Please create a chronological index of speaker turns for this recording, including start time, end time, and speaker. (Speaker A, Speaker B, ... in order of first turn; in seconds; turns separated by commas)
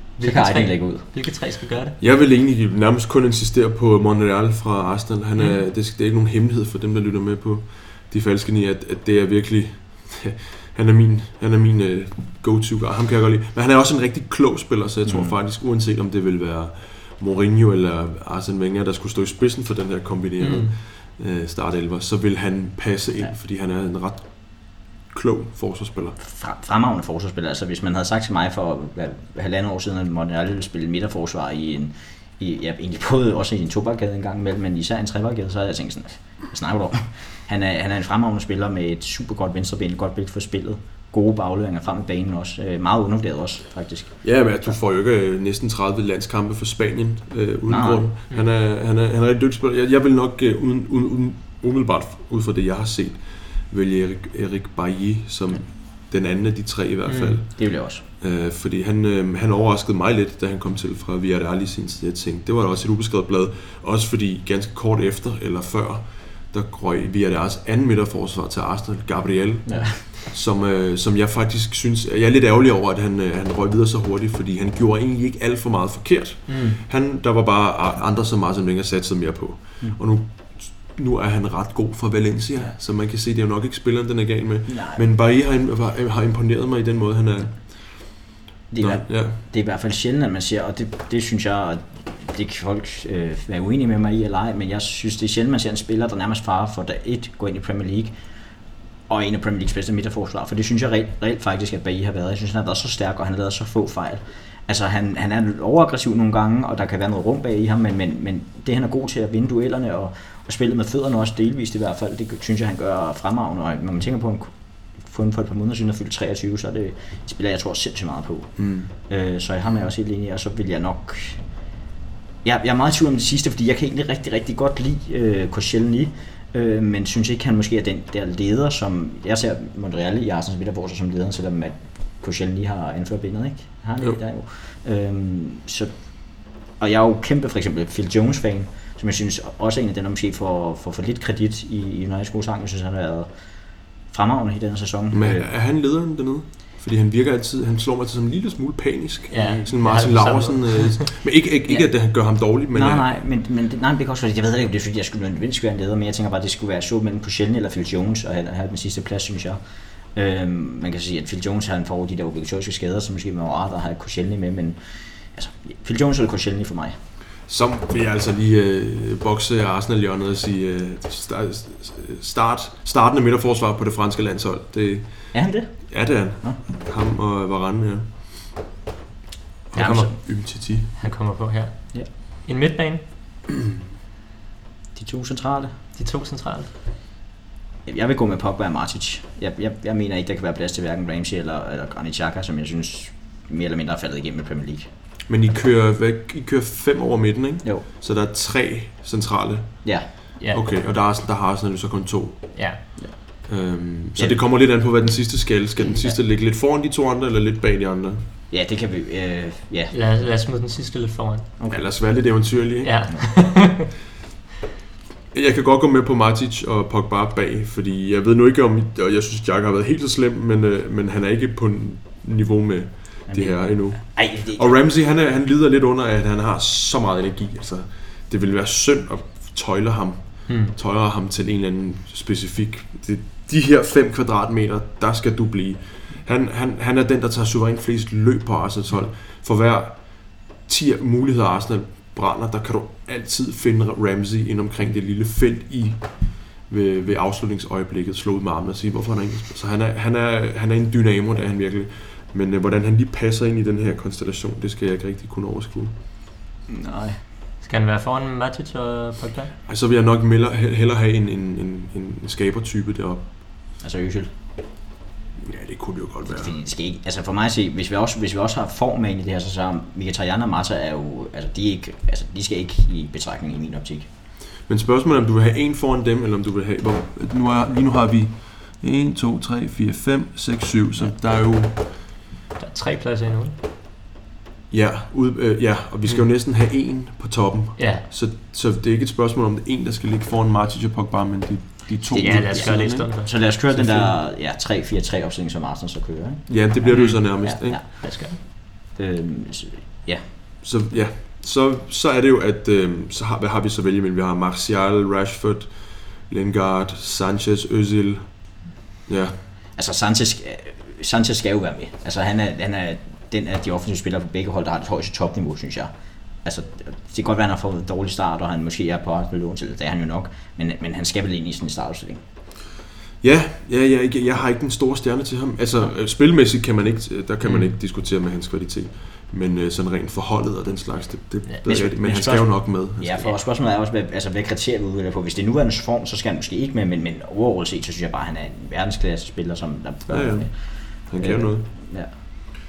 Speaker A: 0.1-2.0, Speaker B: 0.2-1.0, Speaker C: 2.0-26.2, Speaker B: 15.0-15.3, Speaker A: 20.4-20.7, Speaker B: 26.2-44.7, Speaker C: 44.2-89.4, Speaker B: 47.7-48.0, Speaker A: 57.0-57.4, Speaker B: 57.5-58.0, Speaker B: 69.7-70.2, Speaker B: 76.5-76.8, Speaker B: 84.7-85.0, Speaker B: 88.7-98.2, Speaker B: 99.0-121.6, Speaker C: 118.6-118.9, Speaker B: 122.4-145.5, Speaker C: 145.1-153.1, Speaker A: 149.3-151.1, Speaker B: 152.7-159.6, Speaker B: 160.1-167.0, Speaker C: 167.4-178.6, Speaker B: 175.3-176.6, Speaker C: 179.7-180.9, Speaker B: 179.7-180.1, Speaker A: 179.8-183.1, Speaker B: 184.9-185.8, Speaker A: 185.9-186.7, Speaker B: 187.8-194.9, Speaker C: 195.3-202.9, Speaker B: 199.8-200.1, Speaker A: 202.5-202.8, Speaker B: 202.9-203.4, Speaker C: 203.5-208.2, Speaker B: 204.1-204.4, Speaker B: 205.8-206.2, Speaker B: 208.5-209.9, Speaker A: 209.9-211.5, Speaker B: 211.6-211.9, Speaker C: 211.7-213.1, Speaker A: 212.8-213.8, Speaker C: 215.3-255.9, Speaker B: 223.3-224.8, Speaker A: 230.5-230.7, Speaker B: 256.7-257.2, Speaker A: 257.6-259.5, Speaker C: 259.7-263.3, Speaker B: 263.8-264.3, Speaker C: 265.4-266.5, Speaker B: 266.2-274.1, Speaker C: 274.6-281.8, Speaker A: 282.6-283.6, Speaker C: 284.7-294.1, Speaker A: 287.8-288.1, Speaker B: 292.1-296.5, Speaker A: 292.1-293.4, Speaker C: 296.5-297.8, Speaker A: 296.8-298.4, Speaker B: 297.7-300.2, Speaker C: 300.6-309.4, Speaker B: 309.7-322.2, Speaker C: 323.2-333.3, Speaker A: 327.4-327.7, Speaker B: 331.6-342.1, Speaker C: 340.1-342.3